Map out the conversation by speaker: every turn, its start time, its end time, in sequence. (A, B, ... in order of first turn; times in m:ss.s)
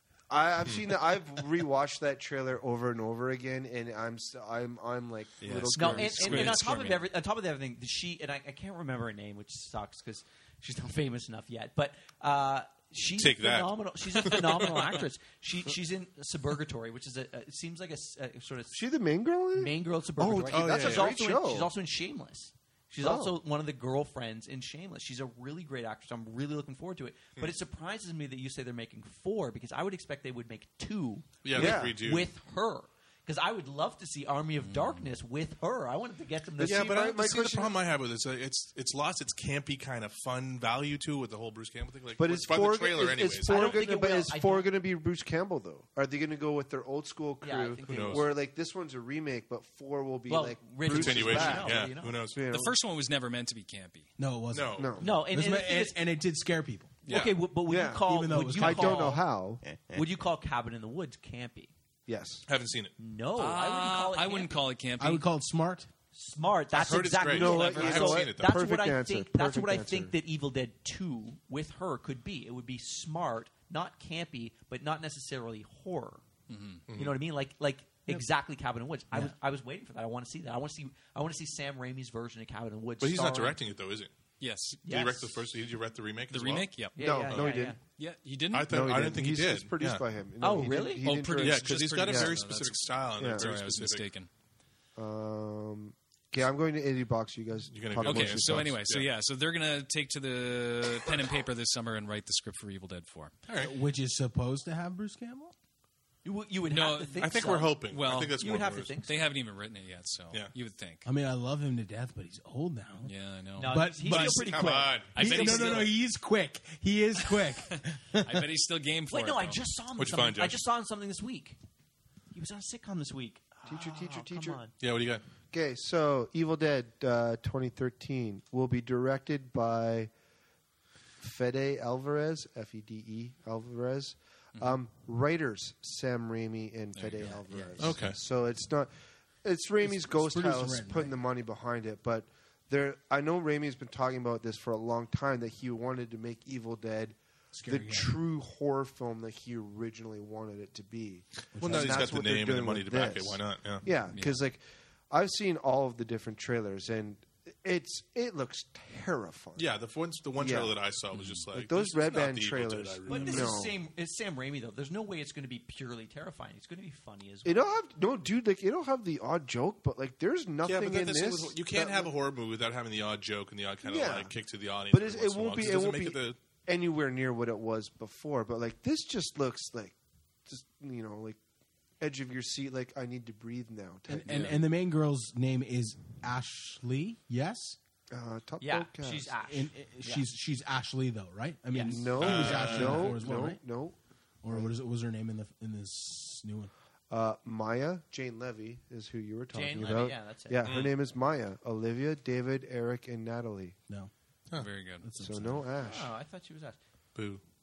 0:00.3-0:06.6 A
0:05.4-0:07.0 B
0:05.7-0:18.8 C
0:13.2-0:14.9 D
0:18.7-0:21.7 A
0:19.5-0:37.0 C
0:20.5-0:21.2 D
0:23.0-0:23.4 A
0:31.4-0:32.3 D
0:31.5-0:32.0 A
0:34.6-0:35.0 B
0:36.6-0:37.7 A
0:36.6-0:43.8 D
0:42.2-0:52.7 A
0:43.5-0:44.7 C
0:47.4-0:48.3 C
0:47.8-0:48.2 D
0:50.3-0:52.2 C
0:50.8-0:52.4 D
0:52.5-0:54.1 B
0:54.2-0:57.0 E
0:54.5-0:54.9 D
0:54.7-0:55.0 A
0:55.0-0:56.0 C
0:57.1-0:57.4 D
0:57.1-0:59.2 C
0:57.7-0:59.6 A
0:58.1-0:59.2 E
0:59.9-1:01.7 C
1:02.1-1:02.4 A
1:02.5-1:02.9 D
1:03.0-1:04.5 C
1:03.4-1:05.2 B
1:05.0-1:05.9 E
1:06.1-1:16.2 C
1:06.7-1:08.6 D
1:07.1-1:10.1 A
1:07.6-1:07.9 B
1:16.5-1:16.8 B
1:16.9-1:17.2 D
1:16.9-1:23.6 C
1:23.0-1:24.1 D
1:24.4-1:24.8 B
1:24.8-1:25.4 C
1:24.8-1:27.5 D
1:26.3-1:27.1 B
1:26.9-1:27.8 C
1:27.0-1:27.8 A
1:28.0-1:28.8 B
1:28.5-1:30.0 D
1:28.7-1:32.3 A
1:30.4-1:31.1 C
1:30.9-1:34.3 B
1:31.4-1:34.1 D
1:33.2-1:33.4 A
1:35.0-1:38.7 A
1:37.7-1:39.1 D
1:38.0-1:43.3 B
1:43.5-1:43.7 D
1:43.6-1:45.5 E
1:46.2-1:49.3 C
1:46.7-1:47.2 B
1:47.2-1:48.9 D
1:47.9-1:48.4 B
1:49.0-1:51.0 B
1:51.0-1:53.1 E
1:53.0-1:54.2 B
1:53.6-1:55.9 C
1:53.6-1:58.5 E
1:54.1-1:55.7 D
1:55.1-1:55.9 B
1:58.2-1:59.6 B
1:59.1-2:01.6 C
2:00.0-2:00.6 D
2:02.3-2:04.7 C
2:03.6-2:04.6 A
2:04.8-2:05.2 D
2:05.5-2:10.1 A
2:11.2-2:18.9 A
2:16.9-2:17.9 B
2:17.8-2:18.2 D
2:19.4-2:39.7 A
2:19.8-2:21.1 E
2:27.5-2:28.1 E
2:31.5-2:32.1 E
2:31.6-2:33.8 D
2:34.1-2:34.4 B
2:39.6-2:43.5 D
2:40.4-2:40.7 A
2:41.1-2:41.4 B
2:41.5-2:43.7 A
2:43.1-2:47.7 C
2:47.4-2:52.1 A
2:50.6-2:56.4 D
2:53.8-2:54.3 A
2:54.9-3:01.4 A
3:02.0-3:04.6 A
3:04.1-3:07.8 E
3:04.2-3:04.6 B
3:08.1-3:09.3 A
3:08.6-3:10.3 C
3:09.4-3:13.6 E
3:11.7-3:12.0 C
3:11.9-3:14.0 A
3:12.2-3:13.2 D
3:14.4-3:16.7 E
3:14.5-3:14.7 A
3:17.1-3:23.8 A
3:19.5-3:20.7 C
3:20.6-3:20.9 D
3:24.6-3:25.0 B
3:25.0-3:25.7 E
3:25.2-3:26.1 A
3:25.8-3:26.8 C
3:27.1-3:27.4 D